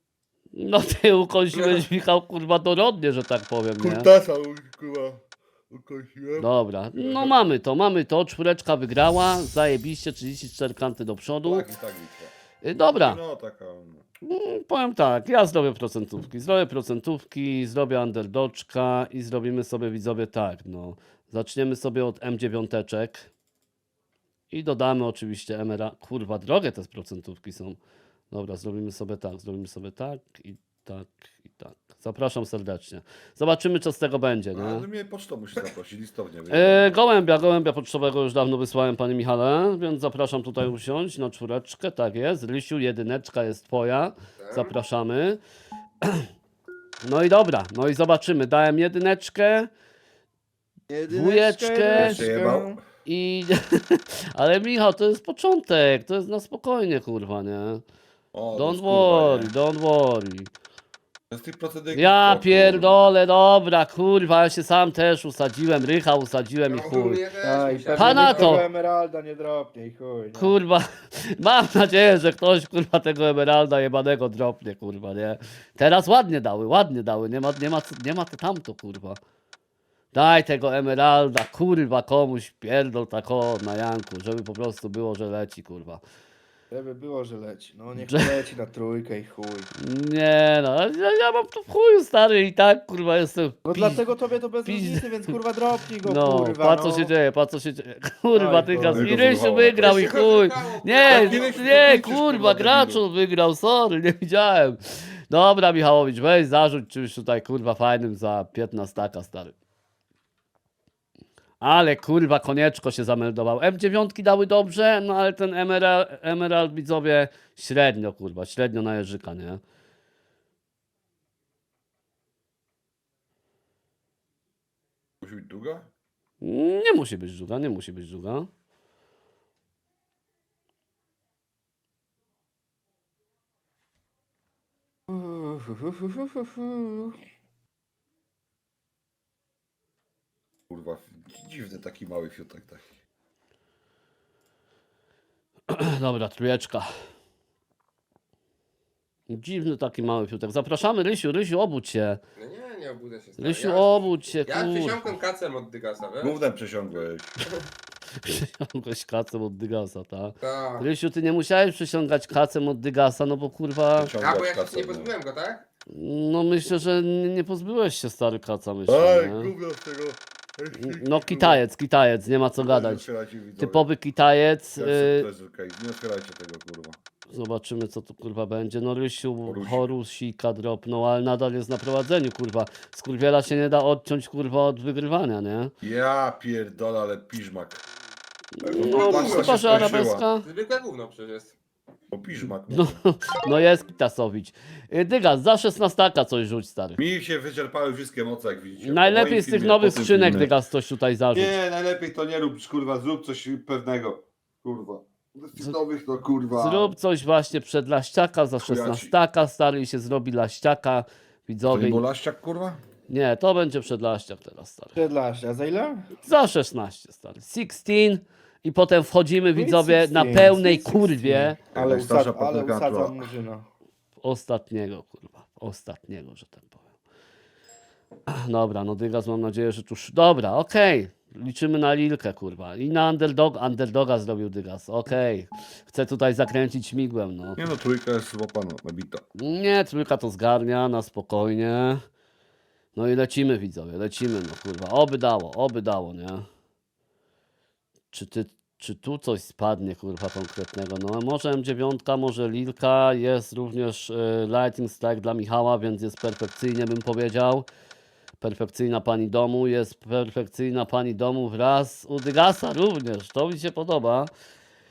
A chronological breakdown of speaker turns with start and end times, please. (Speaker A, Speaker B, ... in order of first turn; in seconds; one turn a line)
Speaker A: 0.5-4.1
Speaker B: 1.5-1.9
Speaker C: 3.8-7.4
Speaker A: 6.4-11.7
Speaker C: 11.4-12.3
Speaker A: 12.6-13.2
Speaker C: 12.9-14.1
Speaker A: 14.2-23.3
Speaker A: 24.5-27.8
Speaker A: 28.3-34.9
Speaker C: 34.5-37.0
Speaker A: 36.5-45.4
Speaker B: 44.4-44.7
Speaker A: 46.0-46.3
Speaker A: 47.0-49.7
Speaker D: 50.9-52.8
Speaker A: 51.1-52.3
Speaker C: 52.0-52.8
Speaker A: 53.0-57.8
Speaker C: 58.3-59.5
Speaker A: 58.5-60.5
Speaker C: 61.3-63.0
Speaker A: 62.0-67.2
Speaker B: 66.7-68.7
Speaker D: 67.4-70.6
Speaker A: 68.0-68.7
Speaker A: 70.4-79.2
Speaker A: 80.1-86.0
Speaker D: 86.7-89.7
Speaker A: 89.8-94.0
Speaker D: 93.7-97.1
Speaker A: 94.7-95.3
Speaker A: 96.0-109.5
Speaker D: 98.3-99.2
Speaker C: 98.9-100.1
Speaker B: 99.8-102.0
Speaker C: 101.1-103.0
Speaker A: 111.6-119.6
Speaker C: 125.2-125.9
Speaker A: 126.4-128.5
Speaker D: 135.1-137.2
Speaker C: 140.7-142.9
Speaker A: 145.7-146.9
Speaker A: 149.3-152.2
Speaker B: 152.4-156.4
Speaker A: 153.4-155.1
Speaker C: 156.2-157.4
Speaker A: 158.2-164.1
Speaker B: 160.4-160.9
Speaker C: 164.0-165.1
Speaker B: 164.2-165.7
Speaker A: 165.9-169.5
Speaker C: 168.9-171.6
Speaker A: 170.7-173.1
Speaker C: 172.6-173.9
Speaker A: 173.6-175.3
Speaker C: 174.8-177.0
Speaker A: 177.3-185.7
Speaker C: 179.4-179.9
Speaker C: 185.8-187.8
Speaker A: 188.6-190.5
Speaker C: 188.6-190.3
Speaker B: 188.8-191.6
Speaker C: 192.1-193.0
Speaker A: 192.7-197.0
Speaker C: 197.0-200.6
Speaker A: 198.8-201.6
Speaker C: 201.3-206.9
Speaker A: 206.5-212.0
Speaker C: 208.6-209.1
Speaker C: 211.7-212.8
Speaker A: 213.1-215.0
Speaker D: 214.9-216.1
Speaker A: 216.2-221.6
Speaker D: 219.6-223.7
Speaker C: 221.7-223.2
Speaker A: 224.2-226.8
Speaker A: 228.3-237.6
Speaker C: 237.6-239.2
Speaker A: 239.4-242.0
Speaker A: 242.9-246.4
Speaker A: 248.1-257.7
Speaker A: 258.4-264.3